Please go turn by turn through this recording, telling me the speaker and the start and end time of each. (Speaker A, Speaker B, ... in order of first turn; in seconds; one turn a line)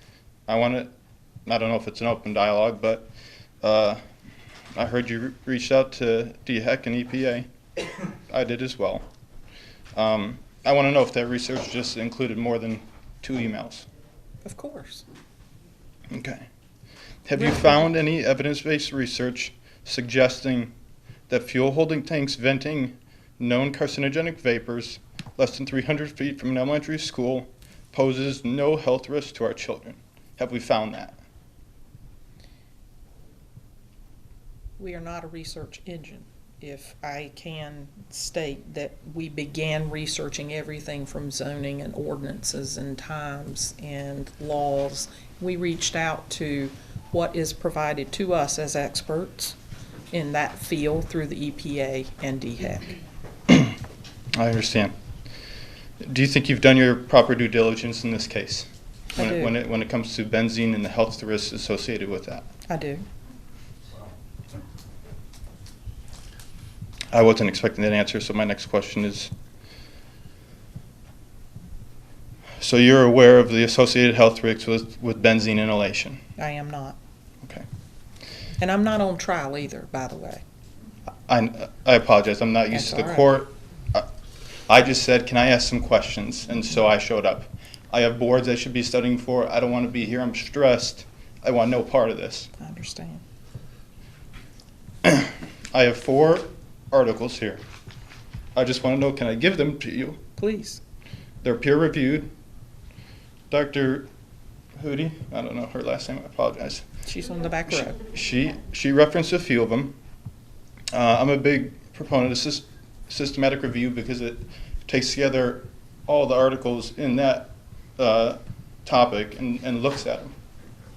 Speaker A: 0.5-0.9
Speaker A: 1.4-3.1
Speaker A: 3.6-4.0
Speaker A: 4.7-7.5
Speaker A: 8.3-9.0
Speaker A: 9.9-13.9
Speaker B: 14.4-15.0
Speaker A: 16.1-16.4
Speaker A: 17.2-20.7
Speaker B: 17.4-17.9
Speaker A: 21.3-31.2
Speaker B: 34.8-49.5
Speaker B: 50.1-53.0
Speaker A: 53.5-53.7
Speaker A: 54.3-54.9
Speaker A: 56.0-62.5
Speaker B: 59.1-59.5
Speaker B: 62.7-63.0
Speaker A: 67.1-69.3
Speaker A: 72.6-76.2
Speaker B: 76.4-77.0
Speaker B: 78.6-80.4
Speaker A: 81.3-84.0
Speaker B: 82.7-83.3
Speaker A: 84.7-92.5
Speaker B: 92.6-93.2
Speaker A: 95.0-97.6
Speaker A: 98.5-100.2
Speaker B: 100.4-100.8
Speaker A: 101.4-102.3
Speaker A: 103.5-104.1
Speaker A: 104.8-106.8
Speaker B: 107.0-108.0
Speaker A: 107.9-109.9
Speaker A: 110.9-120.3